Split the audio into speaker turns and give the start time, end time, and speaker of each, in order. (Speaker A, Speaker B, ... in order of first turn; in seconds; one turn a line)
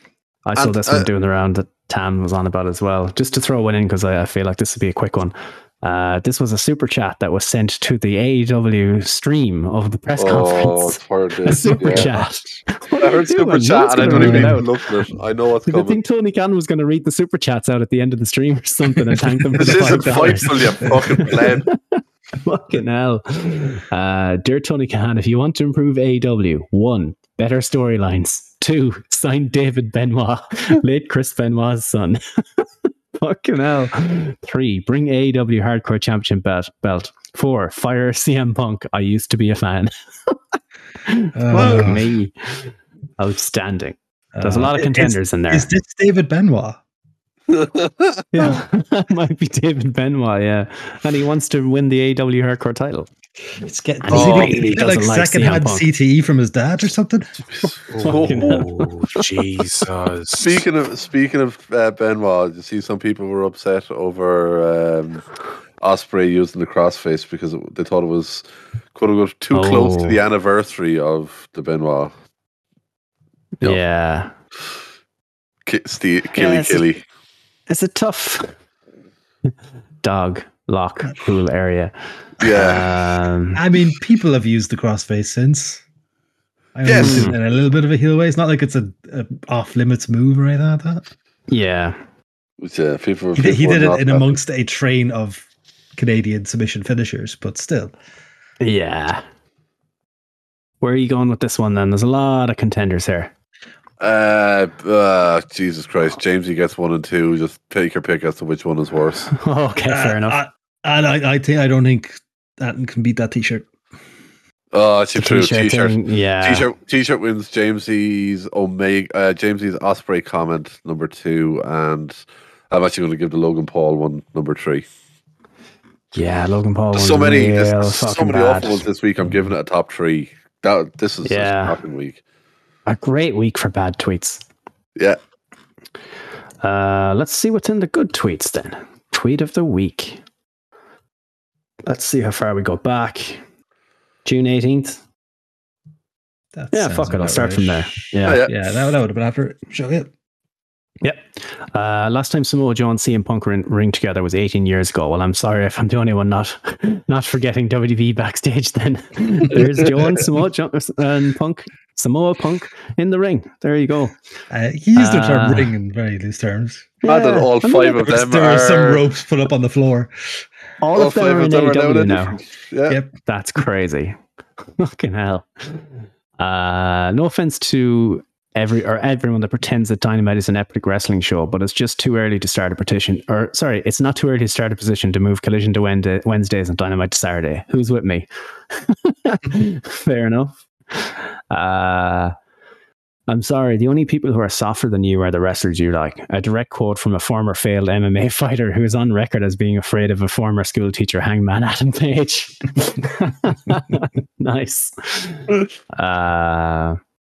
Speaker A: 0.5-14.7
Speaker B: 0.6-1.1
Speaker B: 10.2-12.1
Speaker C: 11.5-12.3
Speaker B: 13.0-16.0
Speaker C: 14.0-14.6
Speaker A: 15.7-40.4
Speaker C: 19.4-21.1
Speaker B: 19.5-21.7
Speaker A: 41.0-45.7
Speaker C: 41.3-42.1
Speaker C: 44.3-46.8
Speaker B: 47.5-48.2
Speaker A: 48.3-53.1
Speaker C: 53.6-57.5
Speaker A: 54.0-55.9
Speaker B: 54.1-54.6
Speaker D: 57.9-60.6
Speaker B: 58.0-58.5
Speaker A: 58.0-59.0
Speaker B: 60.4-65.2
Speaker B: 65.8-72.1
Speaker A: 69.5-70.2
Speaker A: 73.6-74.3
Speaker B: 75.7-77.0
Speaker A: 76.3-76.8
Speaker A: 77.7-78.5
Speaker A: 80.0-83.6
Speaker B: 82.4-83.0
Speaker C: 83.5-85.8
Speaker C: 86.7-91.1
Speaker B: 86.8-87.3
Speaker A: 87.0-87.4
Speaker A: 91.5-92.0
Speaker B: 92.6-94.4
Speaker C: 93.3-97.9
Speaker A: 98.6-99.2
Speaker A: 100.8-103.3
Speaker B: 104.0-109.3
Speaker A: 109.3-110.4
Speaker C: 109.9-113.7
Speaker B: 114.7-124.8
Speaker A: 115.1-116.7
Speaker A: 126.1-128.8
Speaker B: 126.9-132.2
Speaker A: 131.2-131.8
Speaker A: 132.8-134.4
Speaker A: 136.6-140.2
Speaker A: 141.8-143.4
Speaker A: 144.2-145.0
Speaker C: 146.5-150.1
Speaker A: 146.7-148.4
Speaker B: 148.2-148.5
Speaker A: 151.0-164.2
Speaker C: 164.5-167.0
Speaker A: 164.9-165.7
Speaker A: 167.0-168.0
Speaker B: 167.0-169.1
Speaker C: 167.9-170.4
Speaker A: 170.8-172.4
Speaker B: 170.9-173.0
Speaker C: 172.9-173.1
Speaker A: 173.2-174.2
Speaker A: 174.8-192.3
Speaker A: 193.3-207.0